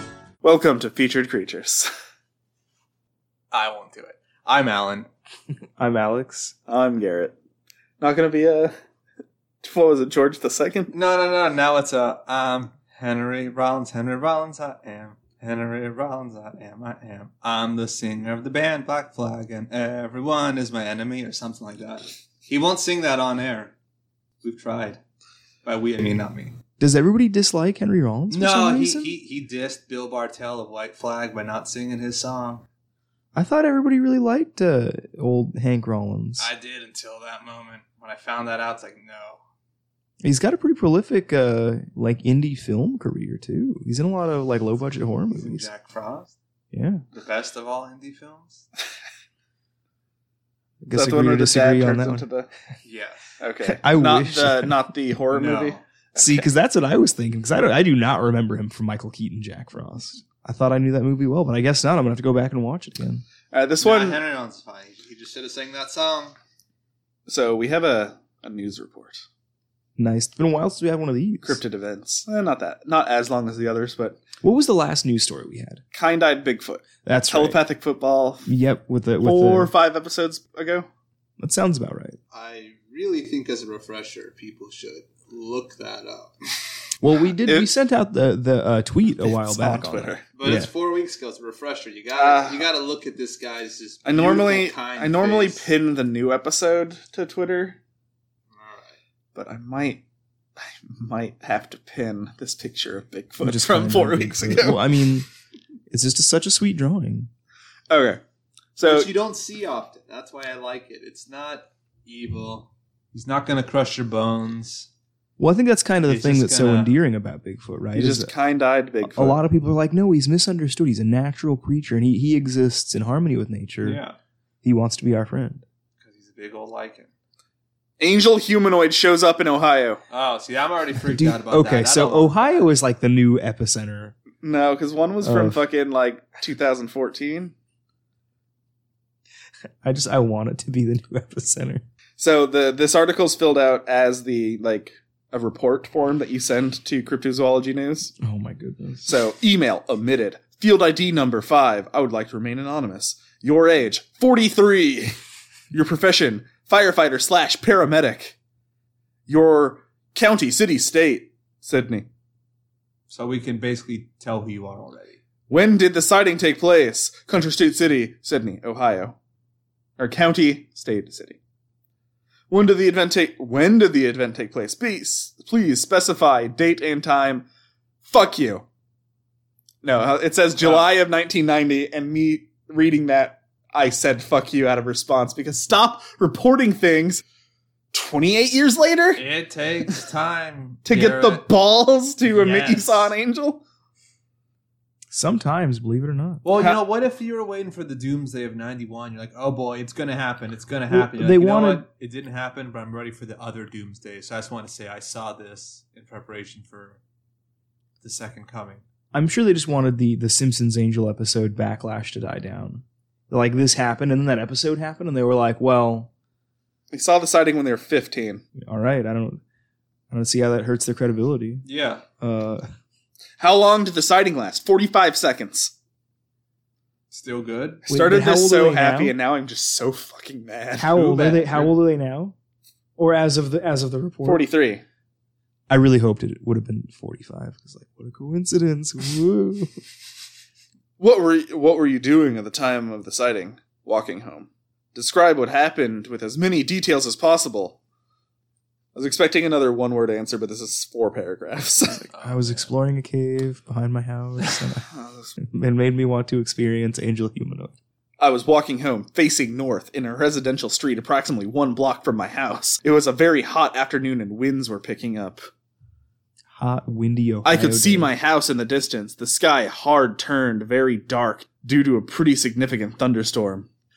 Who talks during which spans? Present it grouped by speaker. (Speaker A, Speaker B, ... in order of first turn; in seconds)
Speaker A: 0.4-1.9, 6.7-7.3, 8.0-8.7, 9.6-10.9, 50.9-52.5, 53.4-56.5, 63.5-64.2, 67.3-69.2, 71.4-74.2, 75.9-78.5, 79.2-80.9, 89.2-90.2, 92.2-92.6, 94.0-97.8, 99.3-100.0, 100.6-104.9, 107.9-108.2, 108.8-109.1, 118.0-119.4, 128.0-130.0, 134.4-137.5, 142.2-148.2, 149.0-155.1, 155.7-158.3, 159.3-162.1, 165.5-169.2, 170.0-171.4, 172.5-177.4, 178.0-178.6, 179.8-187.2, 187.9-189.2, 190.8-193.6, 196.5-196.8, 216.9-218.4, 223.4-225.7, 227.9-231.7, 234.2-234.8, 241.0-247.8, 248.9-252.0, 254.9-255.3, 258.2-265.5, 267.4-273.7
Speaker B: 3.5-5.1, 10.9-23.7, 24.4-25.0, 25.6-26.6, 28.3-32.6, 36.4-39.4, 45.3-46.3, 47.1-48.6, 52.8-53.2, 55.3-55.8, 63.8-66.3, 82.3-86.7, 90.3-95.7, 98.5-99.0, 108.8-114.9, 116.1-116.9, 123.8-124.2, 126.0-127.1, 130.1-132.7, 163.1-165.2, 180.6-180.9, 189.2-191.4, 192.2-193.1, 196.4-207.0, 208.0-208.8, 221.6-222.0, 227.1-227.8, 252.0-252.7
Speaker C: 5.8-6.5, 26.8-29.1, 33.3-36.5, 40.2-45.7, 46.7-47.0, 50.8-52.2, 53.6-54.7, 56.2-63.2, 70.0-71.6, 74.4-75.8, 77.0-77.6, 78.5-79.7, 81.4-82.2, 87.0-90.7, 103.4-105.3, 105.9-107.3, 115.4-118.3, 119.0-124.0, 124.6-125.6, 131.1-134.1, 135.2-135.6, 139.8-141.8, 148.2-149.1, 195.1-196.4, 200.9-201.8, 209.1-216.1, 218.6-219.4, 220.1-221.6, 222.2-222.7, 227.9-229.1, 230.8-232.3, 233.0-234.4, 235.7-239.7, 252.2-257.7, 266.5-268.1